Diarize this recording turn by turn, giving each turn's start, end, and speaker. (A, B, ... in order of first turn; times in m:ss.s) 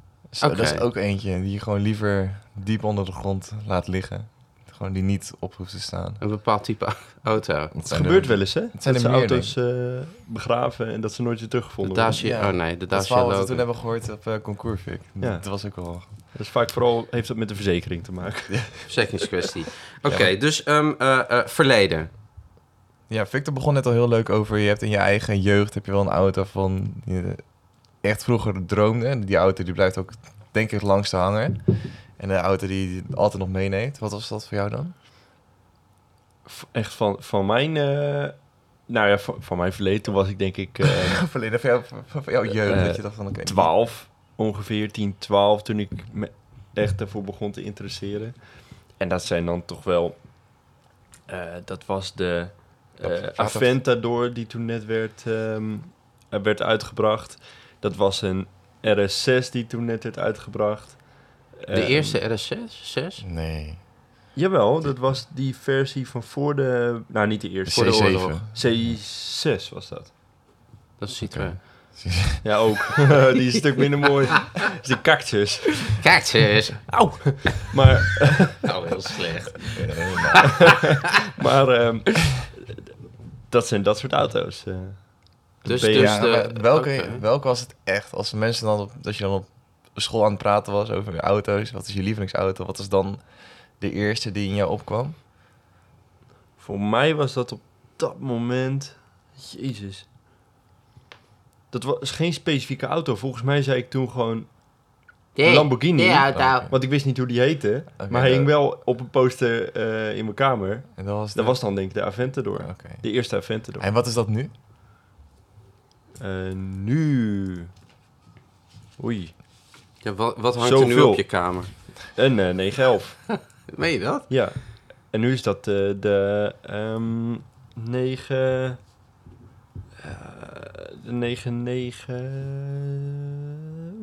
0:00.3-0:06.2 A
0:00.4-0:00.8 B
0:06.2-0:07.7 B
0:07.7-0:09.5 A
0:07.9-0:12.2 C
0:11.8-0:13.6 B
0:12.2-0:16.1 A
0:15.2-0:15.5 C
0:16.3-0:19.0 C
0:18.9-0:22.1 B
0:20.1-0:20.3 A
0:23.1-0:27.5 A
0:28.0-0:34.9 A
0:36.5-0:41.2 C
0:40.9-0:43.7 A
0:42.6-0:48.4 C
0:49.0-0:50.2 C
0:51.3-1:02.2 C
0:53.0-0:53.8 A
1:01.7-1:03.2 B
1:03.2-1:03.8 A
1:04.4-1:10.1 C
1:07.7-1:08.5 A
1:07.7-1:08.4 B
1:11.0-1:11.7 B
1:11.3-1:12.4 A
1:12.4-1:16.0 C
1:15.8-1:17.5 B
1:16.9-1:18.7 C
1:18.6-1:20.8 B
1:19.8-1:20.9 A
1:20.4-1:22.8 C
1:23.5-1:26.2 C
1:25.6-1:27.2 B
1:26.0-1:33.2 A
1:33.8-1:35.2 A
1:36.6-1:40.1 C
1:41.7-1:44.5 C
1:45.4-1:46.7 B
1:45.4-1:53.8 C
1:46.3-1:46.8 A
1:48.0-1:48.5 A
1:51.0-1:51.6 A
1:52.6-1:53.0 A
1:53.8-1:54.5 A
1:56.2-1:57.7 C
1:59.0-1:59.3 C
2:00.0-2:01.7 B
2:00.6-2:01.2 C
2:02.2-2:03.2 C
2:03.3-2:04.3 B
2:04.3-2:08.8 C
2:10.0-2:13.2 C